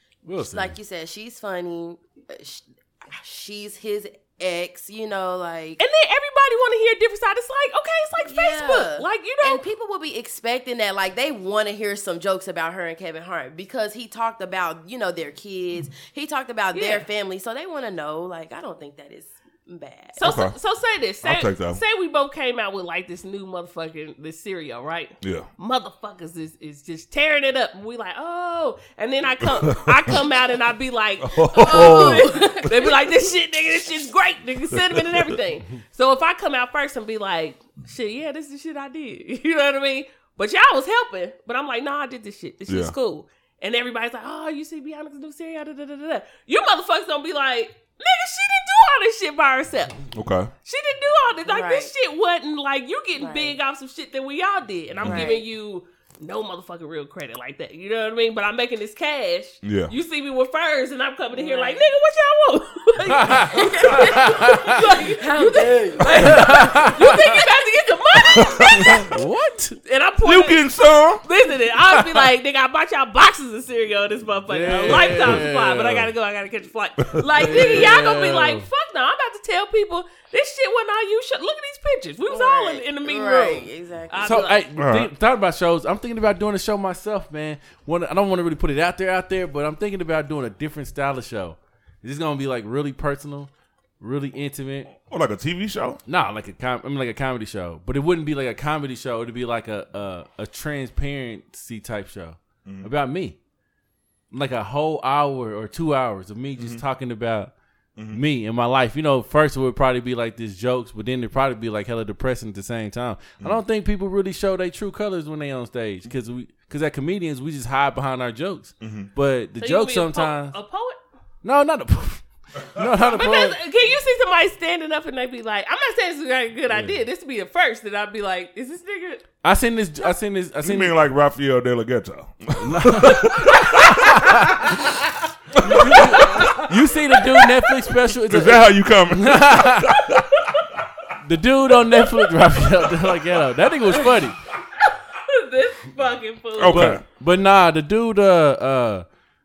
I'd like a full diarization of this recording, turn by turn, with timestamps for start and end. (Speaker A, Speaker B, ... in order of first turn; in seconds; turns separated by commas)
Speaker A: 0.2-0.8, Speaker B: 0.4-5.8, Speaker C: 5.8-9.6, Speaker B: 8.2-20.3, Speaker C: 16.7-17.0, Speaker C: 20.1-50.0, Speaker D: 20.2-20.5, Speaker D: 21.2-21.8, Speaker D: 29.4-30.1, Speaker D: 31.2-32.5, Speaker B: 31.6-32.9, Speaker D: 34.7-35.3, Speaker D: 42.7-42.9, Speaker D: 50.1-50.5, Speaker C: 50.6-69.1, Speaker B: 51.5-51.9, Speaker B: 53.2-53.6, Speaker D: 55.0-55.3, Speaker B: 55.0-55.4, Speaker D: 59.6-59.9, Speaker B: 61.3-61.8, Speaker A: 63.1-64.8, Speaker B: 63.3-67.0, Speaker A: 66.0-67.4, Speaker D: 68.3-69.1, Speaker A: 68.8-69.8, Speaker C: 69.8-70.6, Speaker D: 70.2-71.2, Speaker C: 71.2-84.7, Speaker A: 71.9-72.2, Speaker A: 74.5-76.1, Speaker D: 77.0-77.7, Speaker A: 77.3-78.7, Speaker B: 82.3-84.5, Speaker A: 84.2-94.9, Speaker D: 84.8-85.1, Speaker D: 95.0-96.0, Speaker A: 96.1-103.4, Speaker A: 104.3-107.5, Speaker D: 106.6-106.8, Speaker A: 108.1-120.5, Speaker D: 118.8-119.1, Speaker C: 119.6-121.0, Speaker A: 121.4-123.6, Speaker C: 123.0-129.2, Speaker A: 126.7-127.0, Speaker A: 129.4-130.9, Speaker D: 130.6-134.8, Speaker A: 132.6-134.8, Speaker D: 135.5-136.7, Speaker A: 135.6-140.0, Speaker C: 135.8-136.7, Speaker D: 138.2-140.3, Speaker A: 141.2-144.3, Speaker C: 144.9-147.0, Speaker D: 146.6-147.0, Speaker A: 146.7-149.1